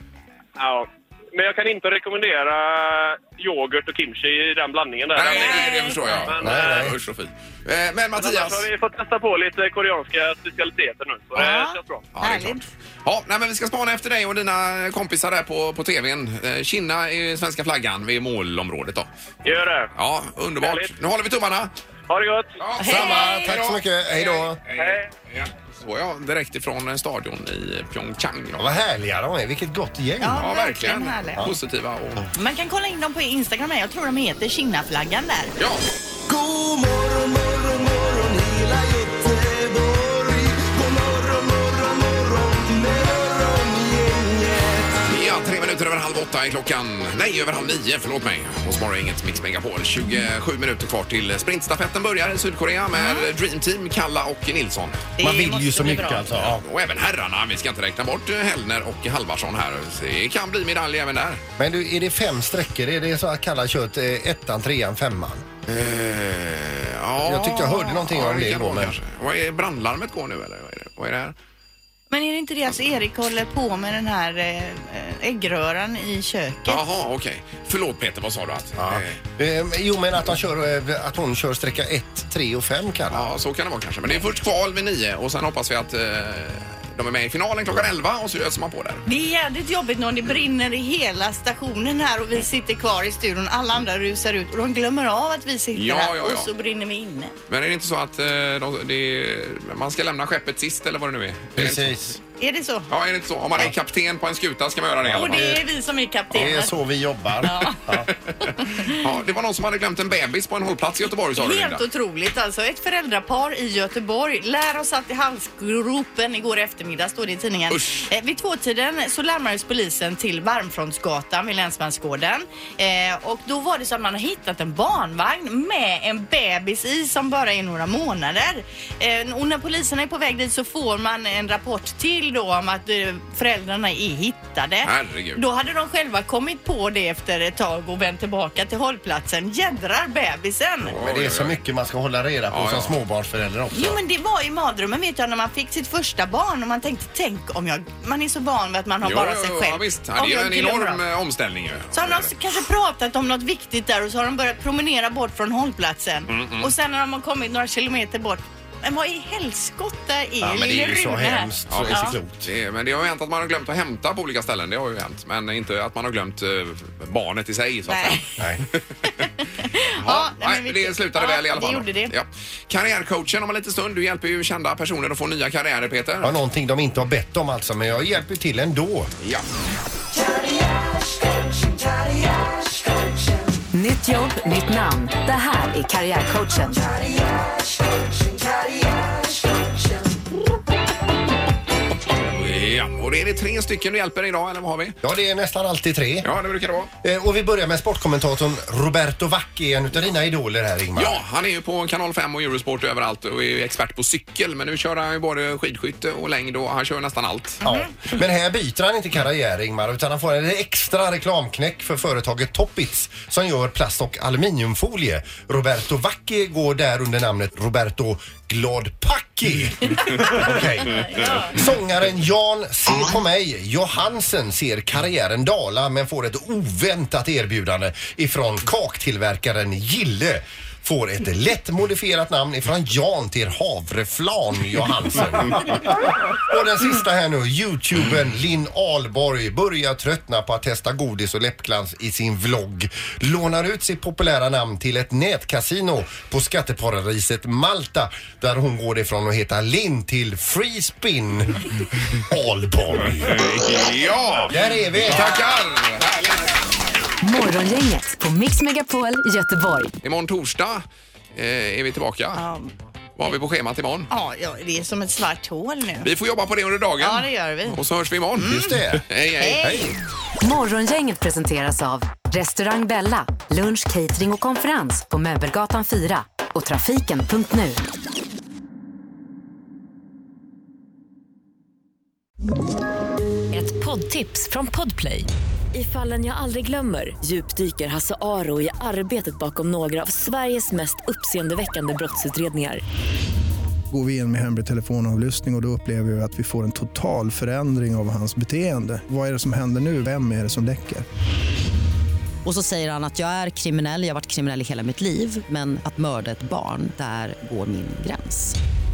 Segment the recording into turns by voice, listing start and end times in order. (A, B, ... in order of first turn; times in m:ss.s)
0:00.6-0:06.9 A
0:05.1-0:08.7 B
0:05.3-0:06.3 C
0:06.4-0:06.9 D
0:08.2-0:12.0 A
0:11.3-0:12.6 C
0:12.1-0:19.1 B
0:19.4-0:19.9 A
0:20.0-0:21.7 B
0:20.6-0:20.9 A
0:22.1-0:22.5 A
0:22.6-0:28.7 B
0:22.8-0:23.5 C
0:22.8-0:24.6 D
0:24.7-0:25.0 A
0:28.6-0:30.4 D
0:30.2-0:31.4 C
0:30.4-0:32.3 B
0:32.3-0:35.5 C
0:35.6-0:35.8 B
0:36.3-0:45.0 E
0:45.1-0:55.0 B
0:52.9-0:53.3 C
0:55.2-0:56.3 C
0:55.2-0:56.6 D
0:56.3-1:01.4 B
1:01.6-1:05.5 D
1:05.6-1:11.3 B
1:07.2-1:09.0 D
1:12.1-1:16.8 C
1:16.6-1:19.2 B
1:18.8-1:23.3 D
1:23.1-1:29.0 B
1:29.0-1:37.3 C
1:35.7-1:36.5 B
1:37.5-1:41.9 B
1:41.6-1:42.2 D
1:42.4-1:42.9 C
1:42.9-1:45.5 B
1:45.1-1:45.6 D
1:45.1-1:46.7 C
1:46.3-1:48.1 D
1:47.4-1:47.8 C
1:48.4-1:49.0 C
1:48.9-1:51.8 B
1:51.4-2:20.9 C
1:57.7-1:58.1 B
2:14.8-2:15.4 B
2:20.9-2:21.6 B
2:20.9-2:24.0 D
2:22.5-2:22.9 B
2:23.7-2:31.0 C
2:29.0-2:32.3 B
2:31.9-2:42.2 C
2:36.3-2:36.7 B
2:40.4-2:42.5 D
2:41.7-2:49.3 B
2:47.9-2:48.3 C
2:49.6-2:52.1 C
2:50.0-2:56.3 B
2:56.2-2:59.1 D
3:03.7-3:07.0 F
3:12.2-3:15.0 B
3:15.0-3:16.3 D
3:16.2-3:16.9 B
3:17.0-3:21.2 D
3:21.0-3:27.6 B
3:27.6-4:13.5 D
3:40.8-3:41.6 C
4:13.2-4:16.5 B
4:14.5-4:15.4 D
4:17.2-4:19.9 F
4:20.0-4:20.8 B
4:21.3-4:22.4 B
4:22.3-4:22.7 C
4:23.2-4:24.1 B
4:24.1-4:26.1 C
4:26.0-4:29.9 B
4:27.0-4:27.8 C
4:28.4-4:28.8 C
4:28.4-4:29.0 D
4:29.4-4:29.9 C
4:30.4-4:37.8 F
4:43.5-4:52.8 G
4:53.9-5:01.0 H
5:02.4-5:08.6 I